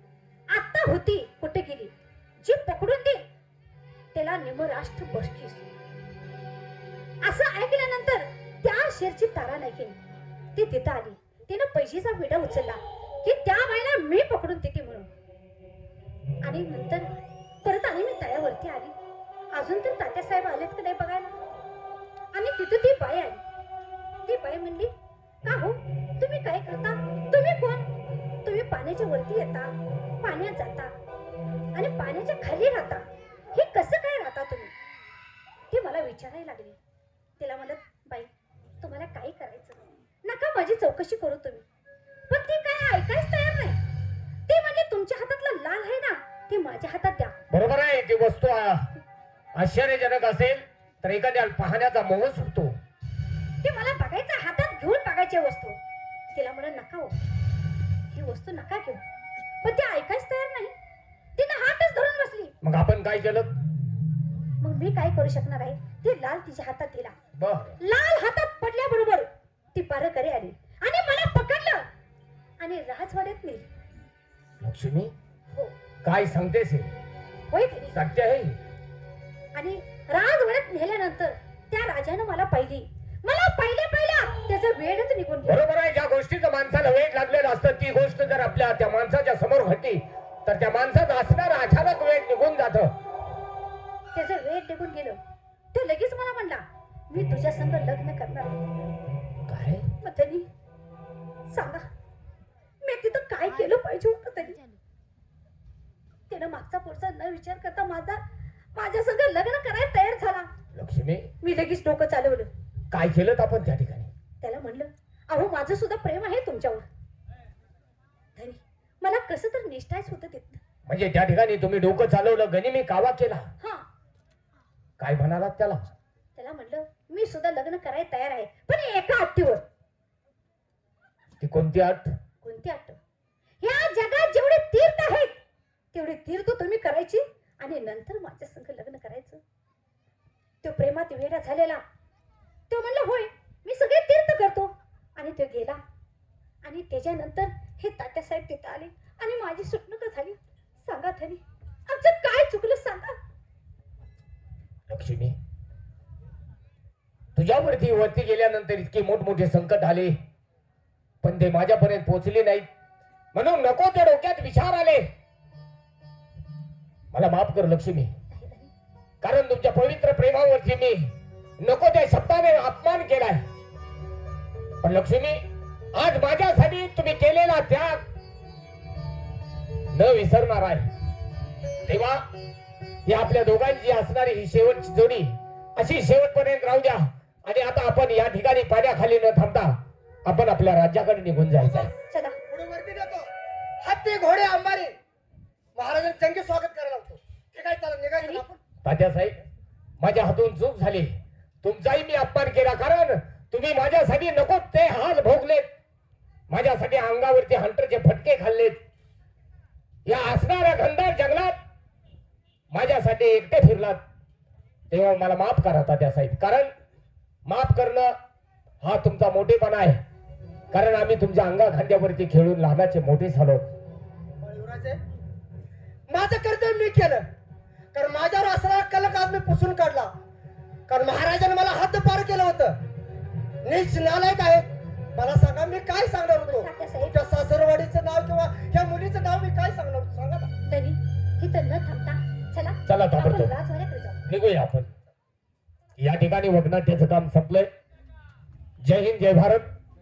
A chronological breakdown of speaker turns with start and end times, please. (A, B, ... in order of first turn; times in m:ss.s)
0:00.5-0:03.2 A
0:04.1-0:05.6 A
0:07.2-0:10.0 A
0:10.6-0:15.1 A
0:16.4-0:17.1 A
0:17.6-0:19.0 A
0:19.5-0:21.4 A
0:22.3-0:23.4 A
0:24.2-0:24.9 A
0:25.4-0:27.9 A
0:28.4-0:30.9 A
0:31.8-0:34.7 A
0:35.7-0:36.8 A
0:37.4-0:38.3 A
0:38.8-0:41.6 A
0:42.3-0:43.8 A
0:44.5-0:47.4 A
0:47.5-0:49.0 B
0:49.6-0:52.8 B
0:53.6-0:55.8 A
0:56.3-0:57.2 A
0:58.1-0:59.0 A
0:59.6-1:00.7 A
1:01.4-1:02.5 A
1:02.6-1:03.5 B
1:04.6-1:07.2 A
1:07.4-1:07.8 B
1:07.8-1:11.8 A
1:12.6-1:13.7 A
1:14.6-1:15.1 B
1:16.0-1:16.9 B
1:17.5-1:18.0 A
1:17.9-1:18.6 B
1:19.6-1:25.6 A
1:25.4-1:33.0 B
1:34.1-1:35.2 A
1:35.7-1:38.6 A
1:39.5-1:39.9 B
1:40.0-1:40.5 A
1:41.5-1:41.9 A
1:42.8-1:44.6 A
1:46.3-1:48.2 A
1:48.8-1:50.5 A
1:50.7-1:51.3 B
1:51.4-1:52.5 A
1:52.9-1:54.1 B
1:54.4-1:56.9 A
1:58.4-2:00.6 A
2:00.9-2:03.5 B
2:03.6-2:03.9 A
2:05.0-2:05.9 B
2:06.4-2:09.6 A
2:11.4-2:12.2 B
2:12.4-2:13.0 A
2:13.6-2:15.4 A
2:15.9-2:19.4 A
2:20.6-2:21.8 A
2:22.7-2:25.8 A
2:26.6-2:33.2 A
2:34.9-2:35.4 B
2:37.4-2:40.2 B
2:41.2-2:42.7 B
2:43.3-2:45.1 B
2:47.1-2:48.1 B
2:48.3-2:48.7 A
2:49.2-2:53.5 B
2:54.8-2:58.0 B
2:59.9-3:00.9 B
3:01.8-3:02.2 B
3:03.1-3:11.9 B
3:11.6-3:11.8 C
3:11.9-3:12.4 A
3:12.5-3:13.3 C
3:13.8-3:15.0 C
3:15.8-3:18.6 C
3:18.8-3:19.4 B
3:20.0-3:25.7 B
3:26.5-3:28.8 B
3:30.1-3:31.6 B
3:32.7-3:34.0 B
3:34.9-3:36.7 B
3:37.4-3:38.2 B
3:38.8-3:40.0 B
3:40.7-3:43.7 B
3:44.4-3:45.0 C
3:46.1-3:47.3 C
3:47.9-3:50.1 C
3:50.9-3:52.8 C
3:53.6-4:00.5 C
3:56.5-3:57.2 A
4:00.7-4:04.2 A
4:02.9-4:03.6 B
4:04.3-4:04.9 B
4:06.0-4:07.7 B
4:08.8-4:09.7 B